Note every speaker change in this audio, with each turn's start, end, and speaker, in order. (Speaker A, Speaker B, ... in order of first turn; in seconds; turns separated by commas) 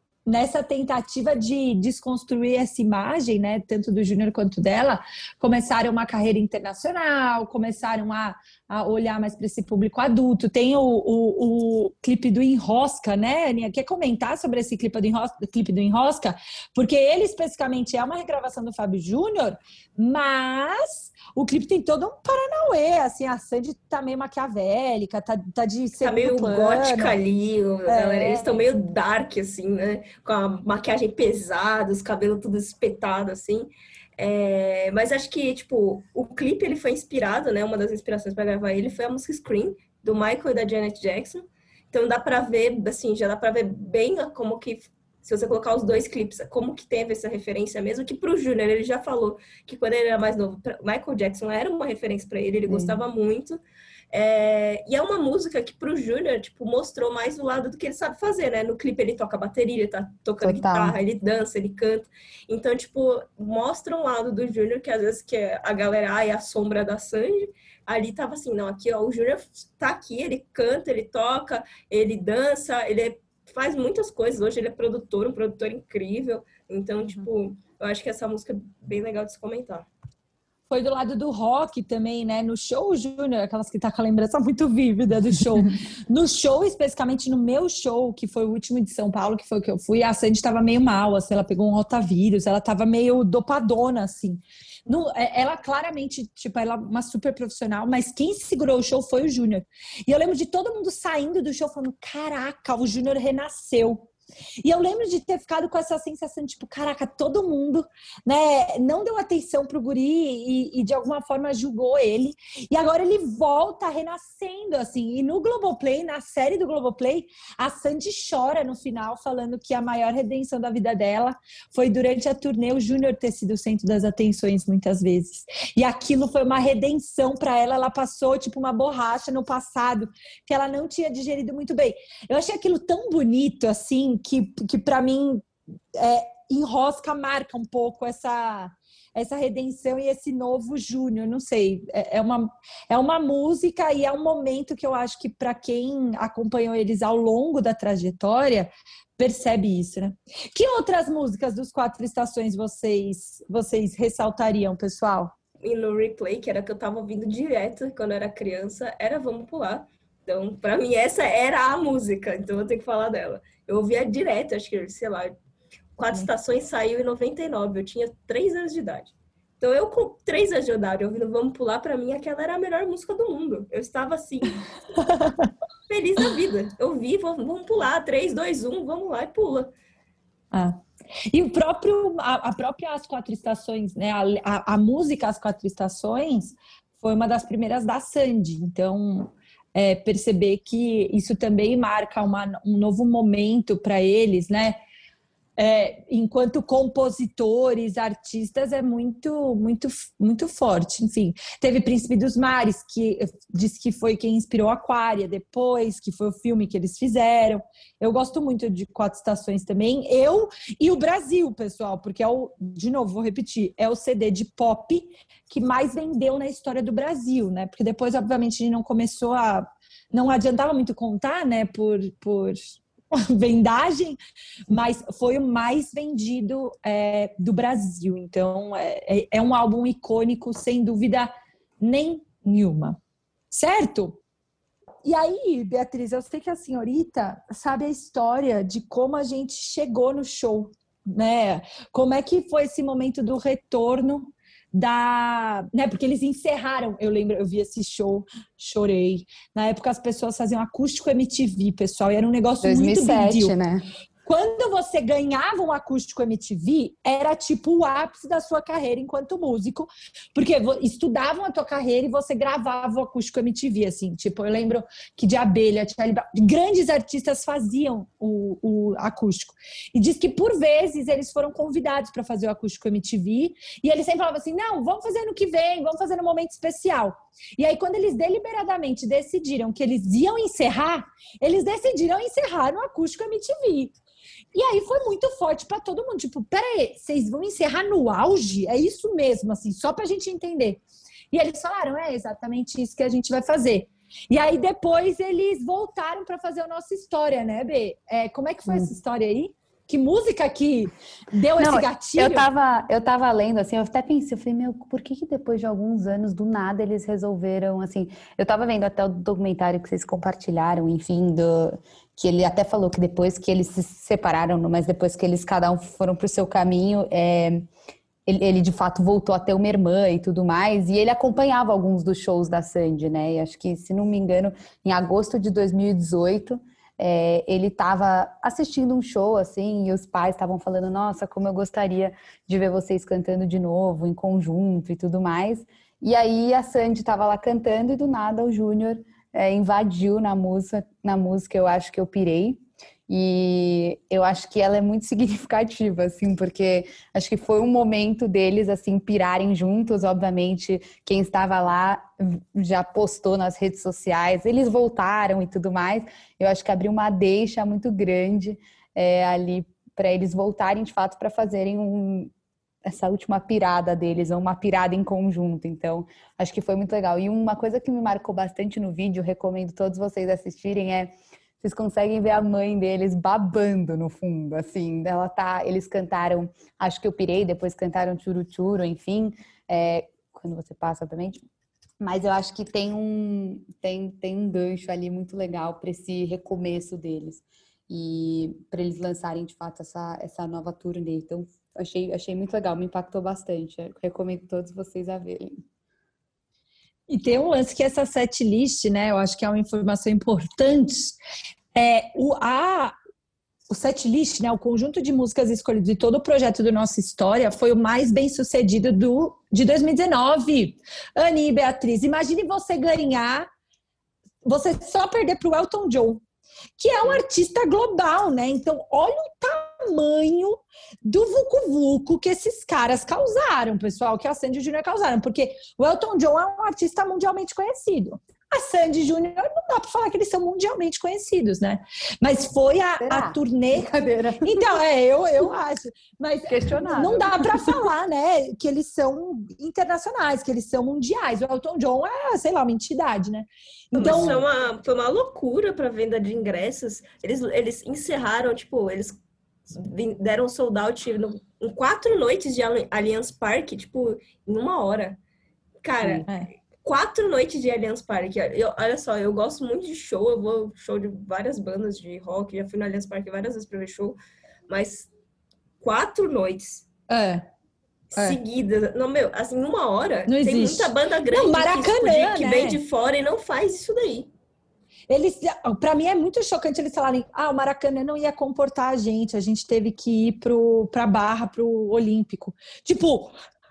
Speaker A: 0.3-27.2, Speaker B: 26.0-79.9, Speaker A: 27.9-28.5, Speaker C: 52.7-53.0, Speaker C: 60.4-61.0, Speaker A: 80.7-104.1, Speaker A: 104.6-155.3, Speaker B: 155.6-165.3, Speaker B: 166.0-174.7, Speaker A: 175.0-175.5, Speaker B: 175.9-179.7, Speaker A: 180.5-194.8, Speaker A: 195.6-233.0, Speaker A: 233.5-234.2, Speaker A: 235.0-253.6, Speaker C: 252.6-253.9, Speaker A: 254.2-283.9, Speaker A: 284.5-302.5, Speaker C: 301.6-317.7, Speaker C: 318.3-362.3, Speaker C: 362.9-381.4, Speaker C: 382.0-395.6, Speaker A: 397.1-401.2, Speaker A: 401.7-402.9, Speaker A: 403.7-413.5, Speaker A: 414.4-416.2, Speaker A: 416.8-433.9, Speaker C: 433.0-434.8, Speaker A: 434.4-444.4, Speaker C: 436.5-437.9, Speaker B: 443.9-455.2, Speaker C: 444.0-444.4, Speaker B: 455.8-456.3, Speaker B: 456.8-465.1, Speaker B: 465.8-466.9, Speaker A: 467.1-467.4, Speaker B: 468.1-474.3, Speaker A: 470.3-472.8, Speaker A: 475.1-483.3